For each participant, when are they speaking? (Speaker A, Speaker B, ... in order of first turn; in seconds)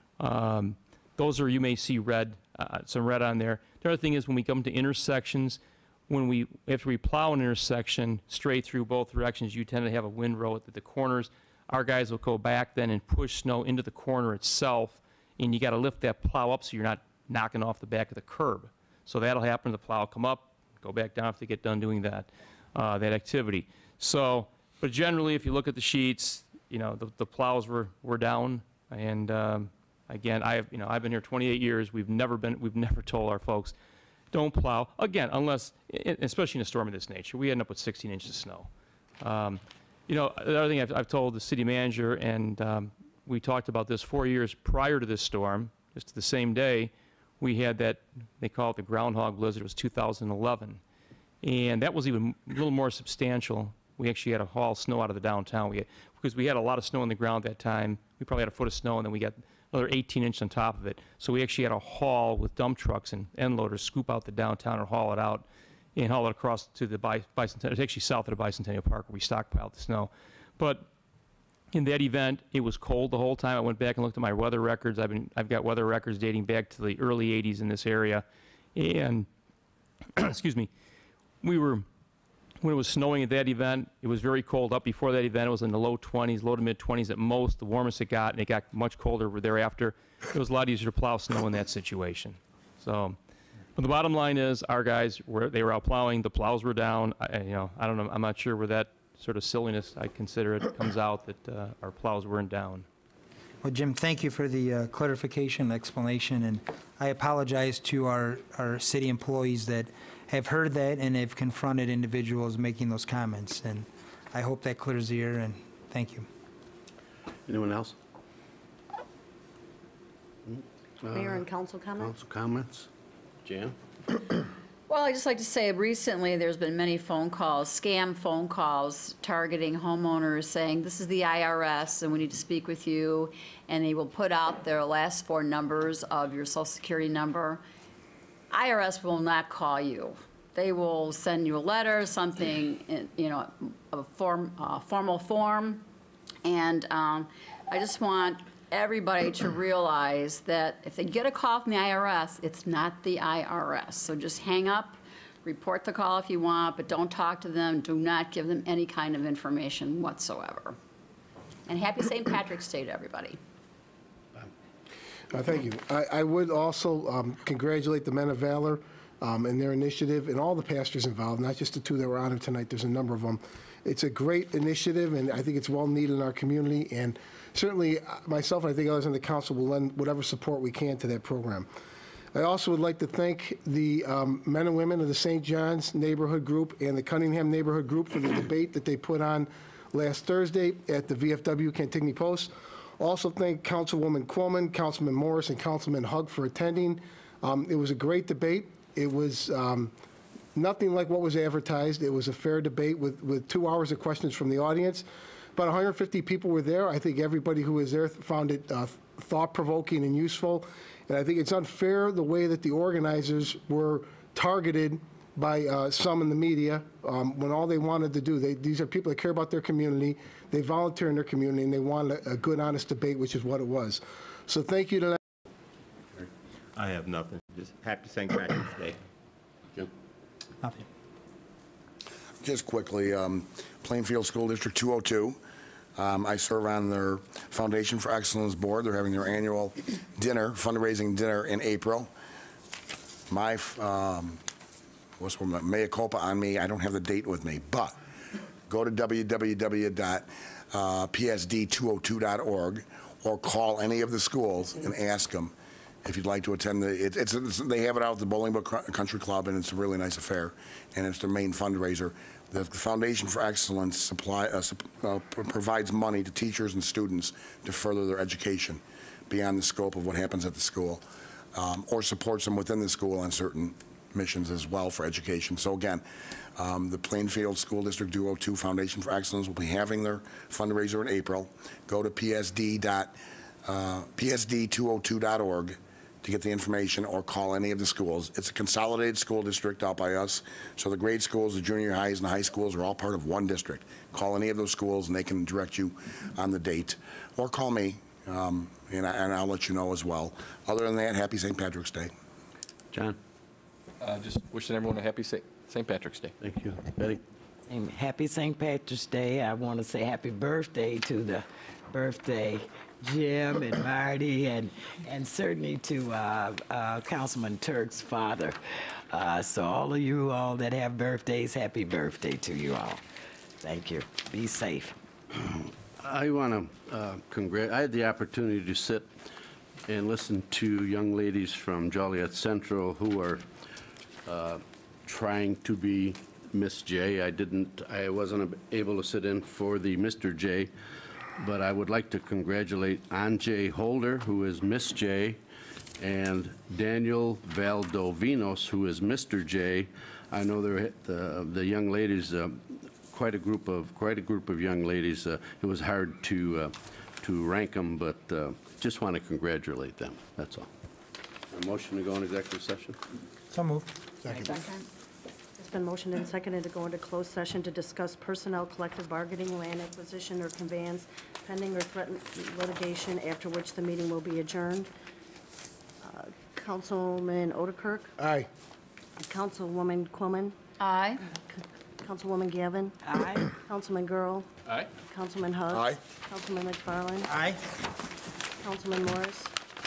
Speaker A: 0.2-33.7, 34.3-50.8, 51.4-70.9, 71.7-79.3, 80.2-80.7, 81.4-81.9, 82.6-93.2, 93.8-102.9
Speaker B: 103.6-116.3, 363.5-363.9, 387.3-387.6
Speaker C: 117.5-118.0, 120.5-121.4, 122.0-122.9, 123.4-123.8, 302.9-303.2, 306.4-307.2, 326.0-329.1, 329.9-333.5, 334.3-340.7, 341.4-345.4, 346.0-360.7, 361.5-363.0
Speaker D: 121.1-122.2, 365.6-374.9, 376.0-378.1, 379.2-380.6, 381.3-383.0, 383.6-384.5, 385.1-387.3, 388.6-389.5
Speaker E: 124.9-137.6, 138.5-145.8, 146.4-160.8, 161.7-163.4, 380.8-381.2
Speaker F: 165.3-181.7, 182.3-199.9, 200.6-225.2, 364.2-364.5, 378.2-378.5
Speaker G: 226.2-229.0
Speaker H: 232.4-235.4, 236.0-242.1, 243.3-244.4, 245.2-248.0, 248.7-271.0, 271.5-276.0, 276.6-302.1, 385.7-386.0
Speaker I: 304.0-306.4
Speaker J: 307.7-318.6, 319.1-323.0, 323.6-324.9, 383.0-383.5